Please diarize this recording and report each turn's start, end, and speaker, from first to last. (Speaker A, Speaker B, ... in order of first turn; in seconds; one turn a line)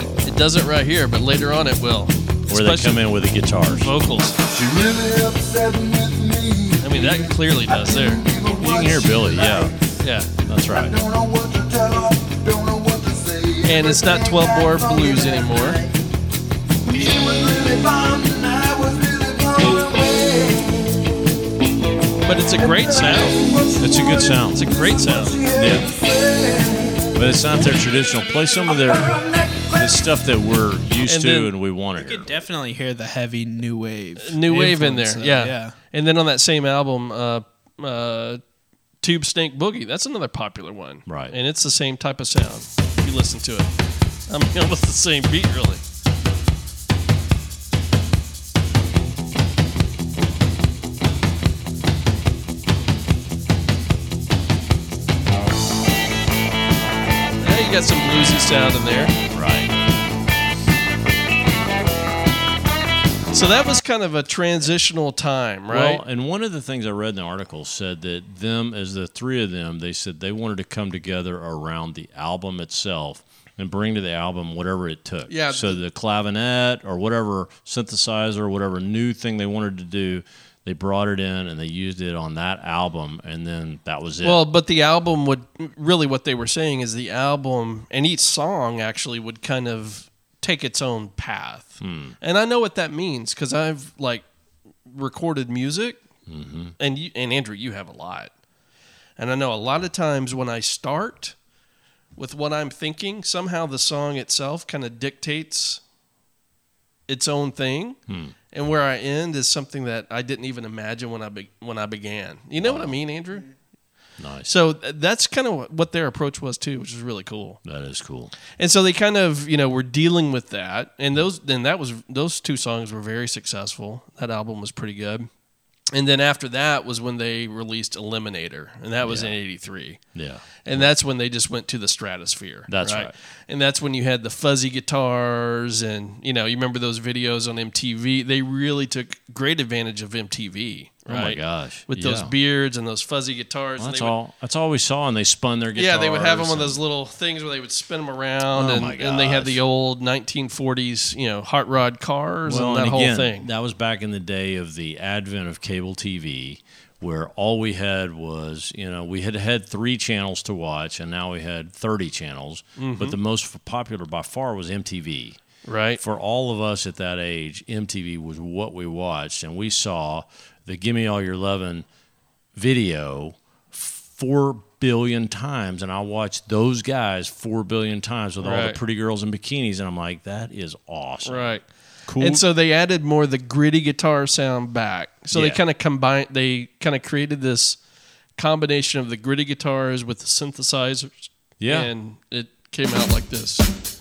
Speaker A: 0.2-3.0
Speaker B: 2.5-3.9
Speaker A: 3.7-4.4
Speaker C: 4.4-9.8
Speaker A: 6.8-8.2
Speaker B: 8.5-9.7
Speaker A: 10.0-10.3
Speaker B: 10.4-11.0
Speaker C: 10.7-15.9
Speaker A: 13.6-15.8
Speaker C: 16.8-21.0
Speaker A: 22.2-23.4
Speaker C: 22.6-27.6
Speaker B: 23.8-24.7
Speaker A: 24.5-25.4
Speaker B: 25.6-25.9
Speaker B: 27.1-29.2
Speaker C: 28.6-29.9
Speaker B: 29.7-32.3
Speaker A: 31.0-31.5
Speaker D: 32.0-35.8
Speaker A: 34.2-38.4
Speaker A: 39.0-43.7
Speaker B: 41.1-41.4
Speaker A: 44.3-45.8
Speaker A: 57.4-59.2
Speaker B: 59.3-59.7
Speaker A: 63.3-66.0
Speaker B: 65.7-84.4
Speaker A: 75.3-75.8
Speaker A: 84.2-94.3
Speaker B: 91.8-92.2
Speaker A: 94.9-96.0
Speaker B: 96.3-96.8
Speaker A: 96.8-98.3
Speaker A: 99.2-101.4
Speaker A: 102.2-105.8
Speaker A: 107.1-108.0
Speaker B: 108.1-108.3
Speaker A: 108.5-113.5
Speaker B: 112.6-113.0
Speaker B: 114.2-114.5
Speaker A: 114.5-117.6
Speaker B: 117.7-118.3
Speaker A: 118.5-125.3
Speaker A: 125.9-130.0
Speaker B: 129.0-129.4
Speaker B: 130.1-130.9
Speaker A: 130.6-144.2
Speaker B: 132.7-133.1
Speaker B: 141.1-142.3
Speaker B: 143.8-146.8
Speaker A: 145.8-153.5
Speaker B: 148.5-149.6
Speaker B: 152.5-165.4
Speaker A: 162.8-163.2
Speaker A: 165.7-166.0
Speaker B: 166.0-171.9
Speaker B: 172.6-182.4
Speaker A: 178.4-178.8
Speaker A: 181.2-187.8
Speaker B: 185.3-185.6
Speaker A: 188.4-193.7
Speaker B: 191.6-191.9